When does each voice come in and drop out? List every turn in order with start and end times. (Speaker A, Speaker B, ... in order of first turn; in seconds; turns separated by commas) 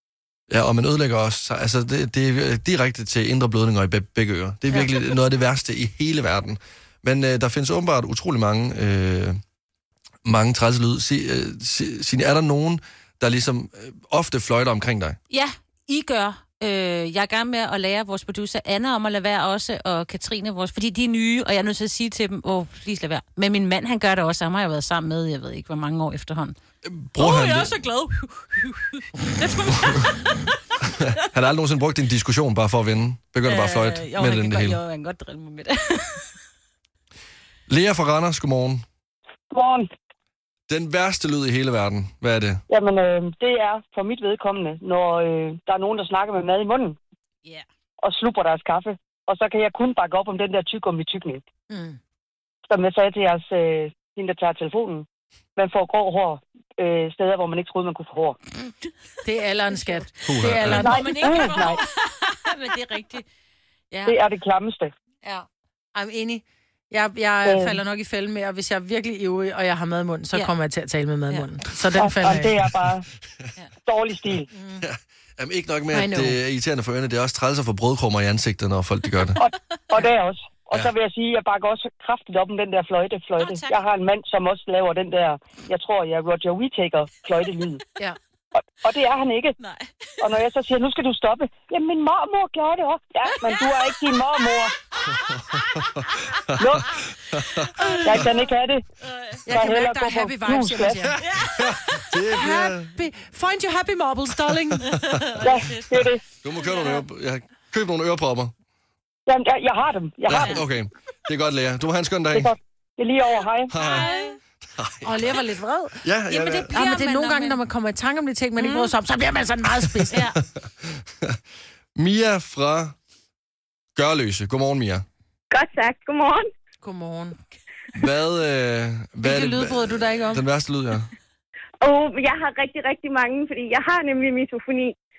Speaker A: 0.5-9.4, Speaker A: 10.2-15.2, Speaker B: 15.3-26.6, Speaker A: 26.8-27.7, Speaker B: 27.2-31.1, Speaker A: 29.8-30.1, Speaker A: 31.0-34.8, Speaker B: 33.5-36.3, Speaker A: 37.7-38.8, Speaker C: 39.5-39.9, Speaker A: 40.7-42.6, Speaker C: 42.7-47.0, Speaker C: 48.0-51.4, Speaker D: 51.7-52.0, Speaker C: 52.6-58.4, Speaker D: 59.2-61.2, Speaker B: 59.7-63.2, Speaker A: 60.2-60.9, Speaker C: 60.8-61.8, Speaker B: 63.9-64.2, Speaker C: 64.0-64.9, Speaker D: 65.9-72.5, Speaker C: 67.4-67.8, Speaker C: 72.0-73.0, Speaker C: 73.8-74.5, Speaker D: 74.5-74.8, Speaker A: 74.8-79.4, Speaker D: 75.9-76.4, Speaker C: 79.4-87.8, Speaker B: 83.4-83.8, Speaker C: 88.5-89.5, Speaker B: 89.6-90.3, Speaker C: 90.2-94.7, Speaker B: 93.3-94.0, Speaker A: 95.5-97.7, Speaker B: 95.7-96.4, Speaker C: 96.6-96.8, Speaker B: 97.3-98.5, Speaker C: 98.0-98.8, Speaker B: 99.0-99.5, Speaker D: 99.5-101.2, Speaker C: 99.5-101.0, Speaker B: 101.2-102.1, Speaker A: 101.2-102.9, Speaker D: 102.3-104.8, Speaker B: 104.8-107.0, Speaker A: 104.9-105.4, Speaker C: 105.4-106.2, Speaker A: 106.4-108.5, Speaker C: 109.3-110.6, Speaker A: 110.2-112.5, Speaker B: 110.3-110.6, Speaker C: 112.3-113.7, Speaker A: 113.7-114.1, Speaker B: 113.8-114.4, Speaker A: 114.7-115.4, Speaker D: 115.0-116.0, Speaker A: 116.0-116.7, Speaker B: 116.3-117.6, Speaker D: 116.7-120.2, Speaker B: 118.6-118.9, Speaker B: 120.1-120.4, Speaker A: 120.2-121.4, Speaker A: 122.0-122.9, Speaker A: 124.0-125.0, Speaker E: 125.5-126.4, Speaker D: 126.8-127.4, Speaker A: 127.9-131.1, Speaker D: 129.2-130.4, Speaker E: 131.8-134.9